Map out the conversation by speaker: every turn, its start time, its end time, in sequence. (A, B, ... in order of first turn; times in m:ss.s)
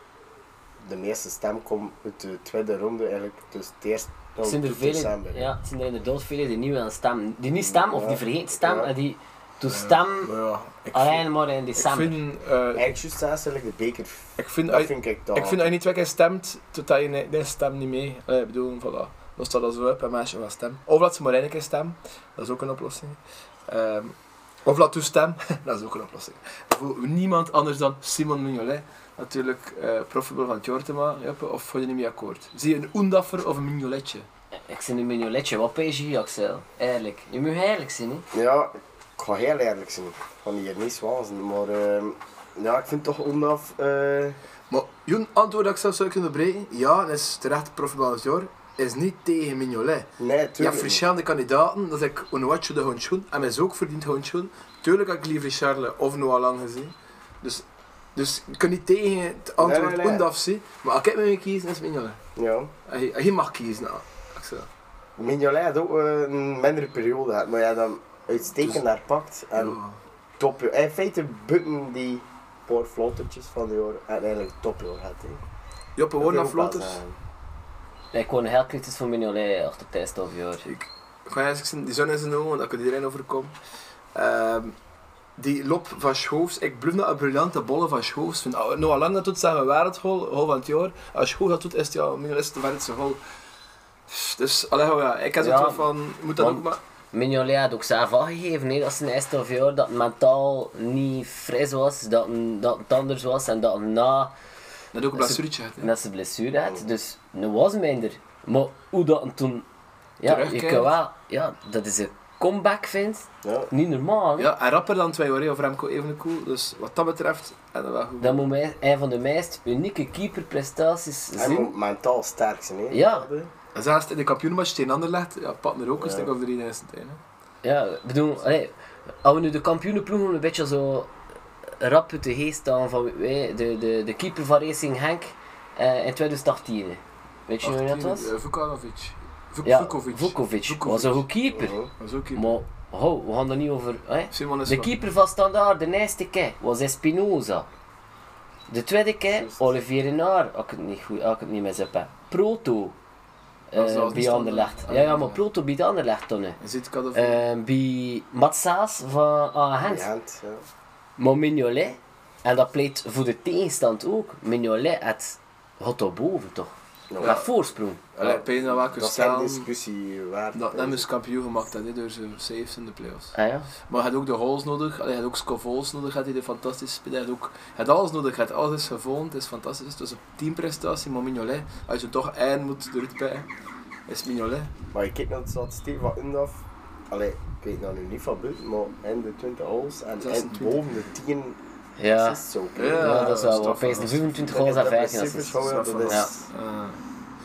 0:00.8-0:05.5 A
0:04.4-0:10.3 B
0:07.6-0:08.9 A
0:09.7-0:12.9 C
0:10.9-0:12.2 B
0:12.7-0:15.7 A
0:14.4-0:34.3 C
0:34.6-0:38.2 B
0:38.3-0:44.4 A
0:44.7-0:50.1 C
0:50.2-0:51.0 A
0:50.6-0:57.6 C
0:58.1-1:02.2 C
0:59.6-1:00.3 A
1:02.4-1:02.7 A
1:02.8-1:04.7 C
1:05.2-1:09.8 A
1:09.6-1:10.0 C
1:10.4-1:15.4 A
1:16.0-1:17.0 C
1:16.2-1:17.2 A
1:18.1-1:20.7 B
1:20.6-1:23.5 C
1:24.1-1:24.8 C
1:25.4-1:33.2 C
1:34.1-1:36.8 C
1:35.4-1:44.3 B
1:44.9-1:45.9 C
1:45.1-1:49.6 B
1:50.2-1:54.5 B
1:50.2-1:50.9 C
1:53.4-1:53.7 A
1:54.4-1:58.4 C
1:58.2-2:01.7 B
2:01.3-2:03.5 A
2:02.9-2:03.3 B
2:03.8-2:07.2 C
2:06.0-2:06.3 A
2:07.6-2:11.1 B
2:11.8-2:18.3 B
2:17.6-2:21.2 C
2:19.6-2:21.8 B
2:21.5-2:21.9 A
2:22.0-2:22.5 C
2:22.3-2:27.7 B
2:24.3-2:24.9 C
2:28.7-2:32.9 B
2:29.3-2:29.7 A
2:33.7-2:36.6 B
2:33.7-2:35.4 C
2:36.6-2:37.4 C
2:37.1-2:40.1 B
2:39.8-2:40.6 A
2:41.2-2:48.0 B
2:47.1-2:47.4 A
2:47.2-2:47.5 C
2:48.2-2:51.1 A
2:48.2-2:49.7 C
2:50.5-2:53.3 C
2:53.3-2:53.7 B
2:53.9-3:03.5 C
3:04.1-3:04.7 C
3:04.9-3:13.3 A
3:10.2-3:10.8 C
3:12.0-3:12.4 B
3:12.8-3:14.3 C
3:13.0-3:16.3 B
3:14.4-3:16.5 A
3:15.6-3:17.0 C